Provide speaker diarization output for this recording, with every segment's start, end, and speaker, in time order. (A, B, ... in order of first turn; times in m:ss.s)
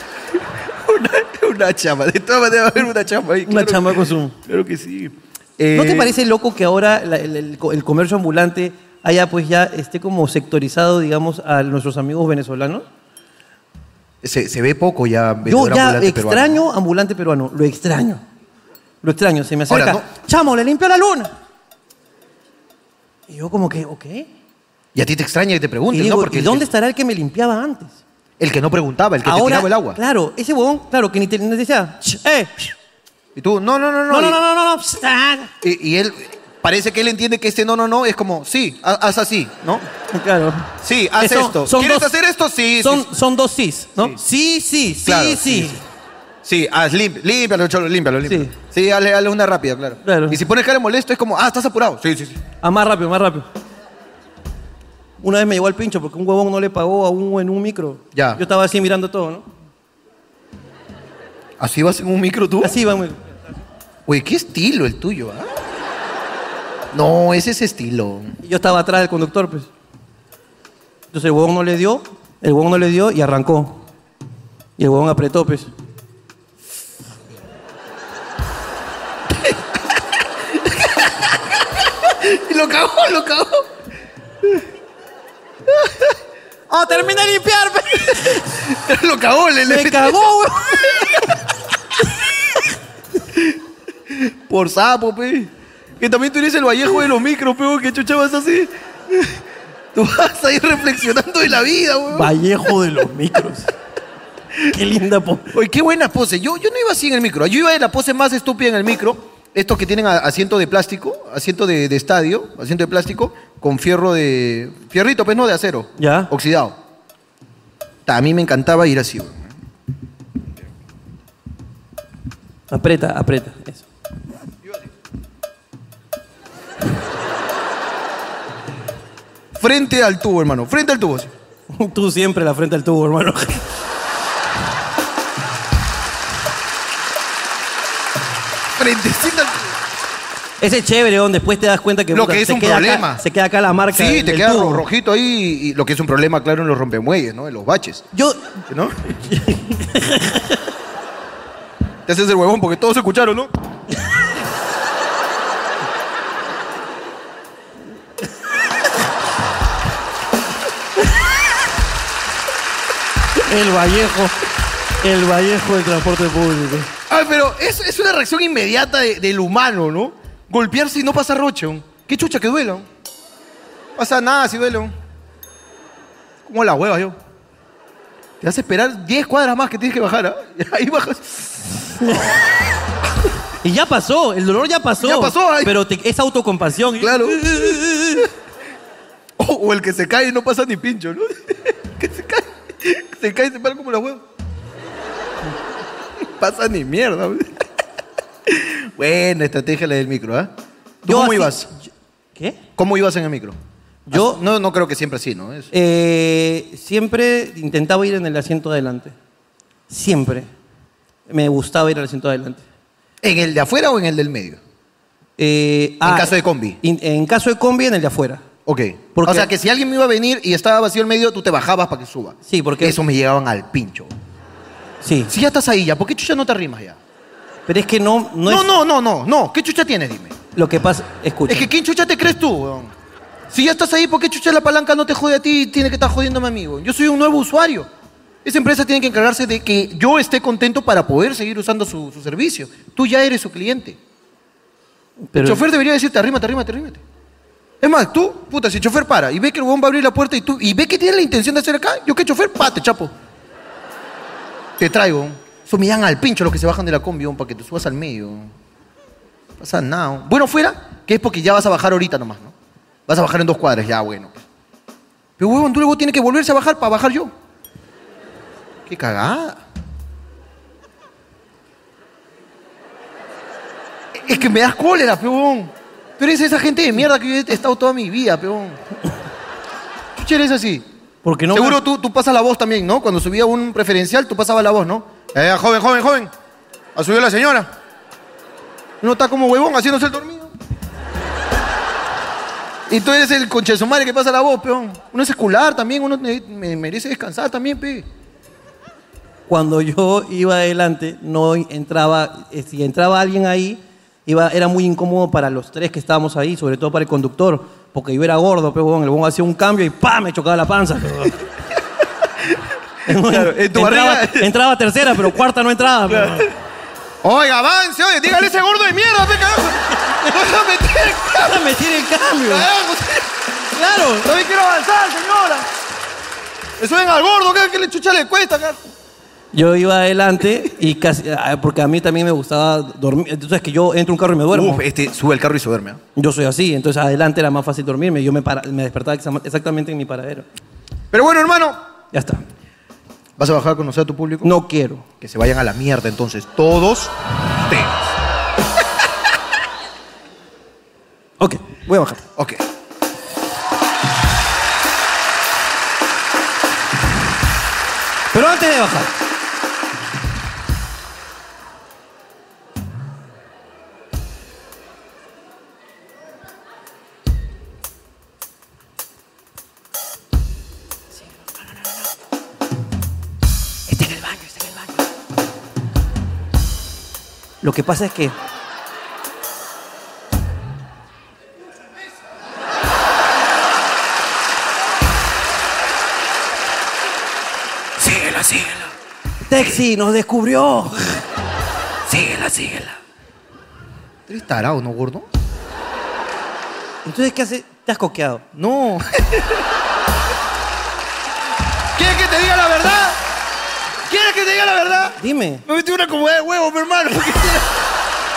0:00.5-0:06.2 A
0:03.4-0:04.3 B
0:05.7-0:12.8 B
0:14.2-0:16.6 A
0:15.4-0:18.2 B
0:19.0-0:21.3 B
0:19.7-0:20.0 A
0:23.3-0:24.3 B
0:24.9-0:26.6 A
0:25.9-0:28.0 B
0:28.4-0:30.0 A
0:29.2-0:32.7 B
0:33.3-0:34.4 A
0:34.1-0:35.5 B
0:35.6-0:39.8 A
0:40.1-0:42.1 B
0:40.8-0:43.1 A
0:42.8-0:45.8 B
0:45.0-0:45.8 A
0:46.4-0:52.4 A
0:48.2-0:48.5 B
0:50.0-0:50.4 B
0:52.6-0:53.5 B
0:55.2-0:59.4 B
0:58.1-0:58.4 A
1:01.6-1:02.8 A
1:02.6-1:03.2 B
1:04.0-1:05.5 A
1:06.9-1:08.3 A
1:08.4-1:09.7 B
1:11.1-1:13.8 B
1:14.8-1:15.7 B
1:19.3-1:19.6 A
1:20.5-1:21.4 A
1:22.0-1:23.7 A
1:25.7-1:26.1 A
1:26.7-1:28.5 B
1:28.3-1:31.1 A
1:29.7-1:30.8 B
1:34.1-1:39.4 A
1:39.9-1:42.3 A
1:42.1-1:43.7 B
1:44.7-1:45.5 B
1:45.5-1:56.8 A
1:56.0-1:56.3 B
1:58.0-1:59.5 A
2:02.7-2:03.8 B
2:09.5-2:11.3 A
2:11.7-2:13.6 B
2:18.8-2:19.7 A
2:20.6-2:24.8 B
2:22.1-2:23.2 A
2:23.9-2:28.0 A
2:28.1-2:28.5 B
2:28.7-2:29.0 A
2:29.1-2:30.6 B
2:32.0-2:33.5 A
2:43.4-2:44.4 B
2:45.0-2:46.9 B
2:47.1-2:52.9 A
2:54.0-2:54.9 A
2:56.4-2:57.2 A
2:58.4-3:01.9 A
3:02.0-3:02.3 B
3:03.6-3:08.2 B
3:05.0-3:05.8 A
3:07.0-3:07.8 A
3:09.4-3:14.2 A
3:16.3-3:17.5 A
3:18.5-3:20.5 A
3:21.0-3:21.7 A
3:21.1-3:22.6 B
3:22.8-3:23.6 A
3:24.1-3:24.4 B
3:24.1-3:25.7 A
3:25.7-3:29.1 B
3:29.9-3:30.5 B
3:31.3-3:32.6 B
3:33.2-3:34.6 A
3:35.4-3:38.4 B
3:36.0-3:36.8 A
3:38.6-3:44.1 A
3:39.1-3:39.5 B
3:42.4-3:43.0 B
3:45.0-3:45.3 B
3:45.3-3:47.0 A
3:47.7-3:48.7 B
3:48.4-3:50.4 A
3:50.5-3:51.7 B
3:51.5-3:52.9 A
3:53.5-3:57.9 A
3:58.4-4:04.0 A
4:05.2-4:05.6 B
4:05.4-4:07.0 A
4:07.8-4:13.1 A
4:14.8-4:18.5 A
4:19.6-4:22.5 A
4:23.1-4:24.4 A
4:25.4-4:27.3 A
4:28.9-4:29.6 A
4:34.1-4:38.8 A
4:40.2-4:40.8 A
4:41.2-4:41.8 B
4:41.5-4:46.3 A
4:46.9-4:47.7 A
4:49.0-4:50.5 A
4:52.9-4:58.1 A
4:59.5-5:11.4 B
5:13.0-5:16.5 B
5:13.1-5:14.5 A
5:16.1-5:16.4 A
5:17.2-5:21.6 A
5:21.3-5:22.7 B
5:22.5-5:23.3 A
5:23.7-5:24.3 B
5:24.2-5:25.7 A
5:26.8-5:28.8 A
5:29.5-5:34.8 B
5:34.5-5:36.0 A
5:36.2-5:40.5 B
5:41.1-5:41.8 A
5:42.1-5:42.4 B
5:43.4-5:44.5 A
5:44.4-5:45.0 B
5:45.2-5:48.1 A
5:51.4-5:52.2 B
5:52.4-5:52.6 A
5:58.3-5:59.1 B
6:13.9-6:14.9 B
6:17.6-6:18.3 B
6:28.0-6:28.9 A
6:29.5-6:31.2 B
6:32.1-6:33.0 A
6:34.3-6:35.3 A
6:37.0-6:38.4 B
6:38.5-6:39.6 A
6:41.9-6:43.2 A
6:44.0-6:47.8 A
6:45.2-6:45.6 B